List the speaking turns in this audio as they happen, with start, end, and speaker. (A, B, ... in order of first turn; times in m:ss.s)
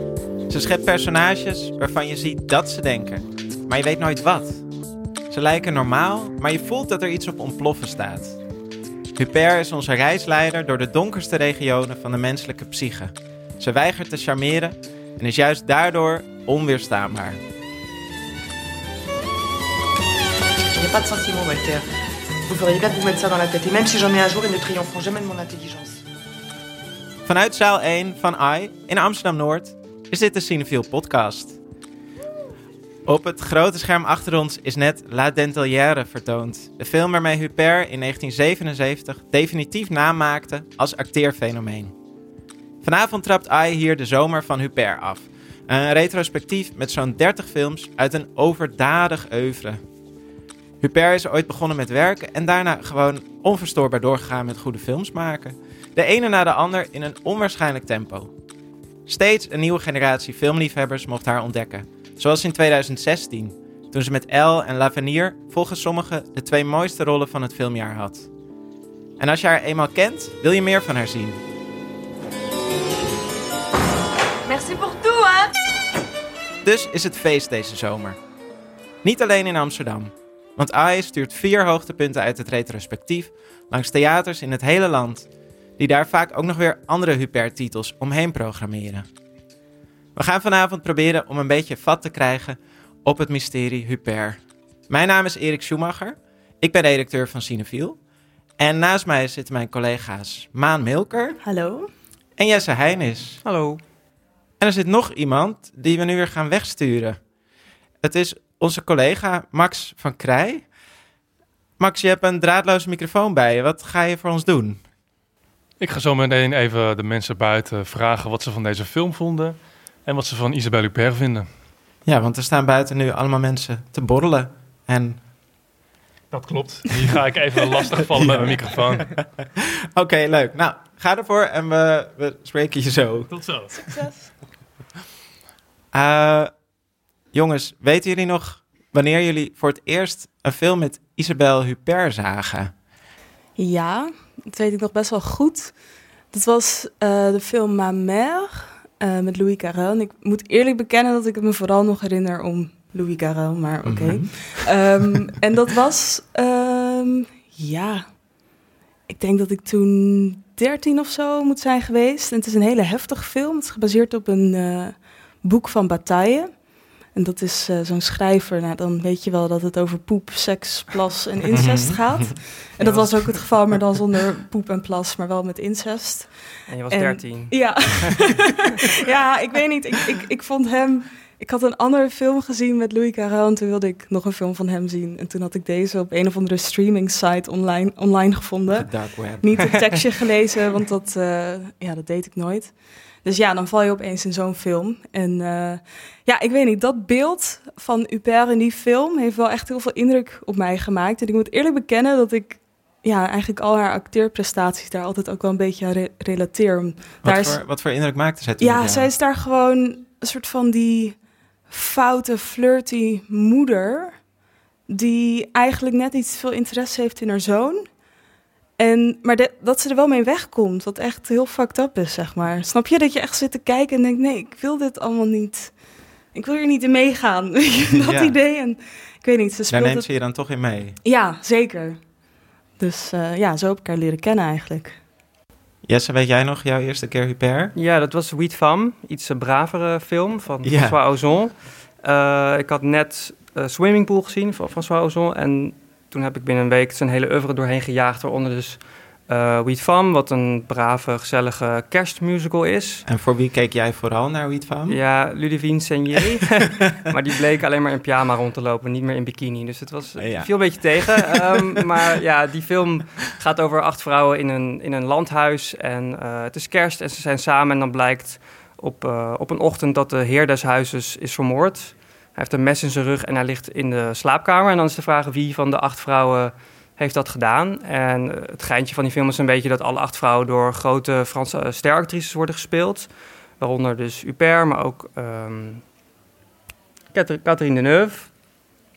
0:00.5-0:04.6 A
0:05.3-0:08.4 A
0:09.2-0:17.4 A
0:20.8-0:21.9 B
0:22.5-0:26.0 B
0:27.2-0:31.6 A
0:33.0-0:41.9 A
0:42.8-0:49.8 A
0:50.8-0:58.3 A
0:59.0-1:08.3 A
1:09.2-1:11.4 A
1:14.5-1:15.5 B
1:16.6-1:18.2 A
1:19.0-1:29.0 A
1:30.1-1:38.0 A
1:38.6-1:41.4 A
1:41.4-1:41.9 C
1:42.4-1:43.4 A
1:43.4-1:43.8 D
1:44.6-1:47.2 A
1:48.0-1:50.6 A
1:51.8-1:54.8 A
1:55.8-2:01.5 E
2:02.0-2:05.2 A
2:06.3-2:09.1 E
2:08.0-2:13.3 A
2:13.3-2:13.9 E
2:13.9-2:14.2 C
2:15.9-2:16.5 A
2:17.3-2:22.7 A
2:23.6-2:25.8 C
2:26.3-2:38.2 C
2:33.8-2:34.6 A
2:39.1-3:27.6 C
2:51.5-2:52.3 A
2:52.8-2:53.5 D
2:56.7-2:58.4 D
3:08.7-3:10.0 A
3:27.2-3:29.1 A
3:28.6-3:34.2 C
3:34.9-3:37.9 C
3:38.8-3:45.8 C
3:46.3-3:50.1 C
3:47.9-3:48.4 A
3:49.7-3:51.0 A
3:51.0-3:52.0 C
3:52.8-3:55.0 C
3:55.8-3:57.7 A
3:57.7-4:13.0 D
4:00.6-4:01.0 A
4:13.0-4:15.0 A
4:14.9-4:45.8 D
4:20.2-4:21.4 A
4:47.1-4:48.4 D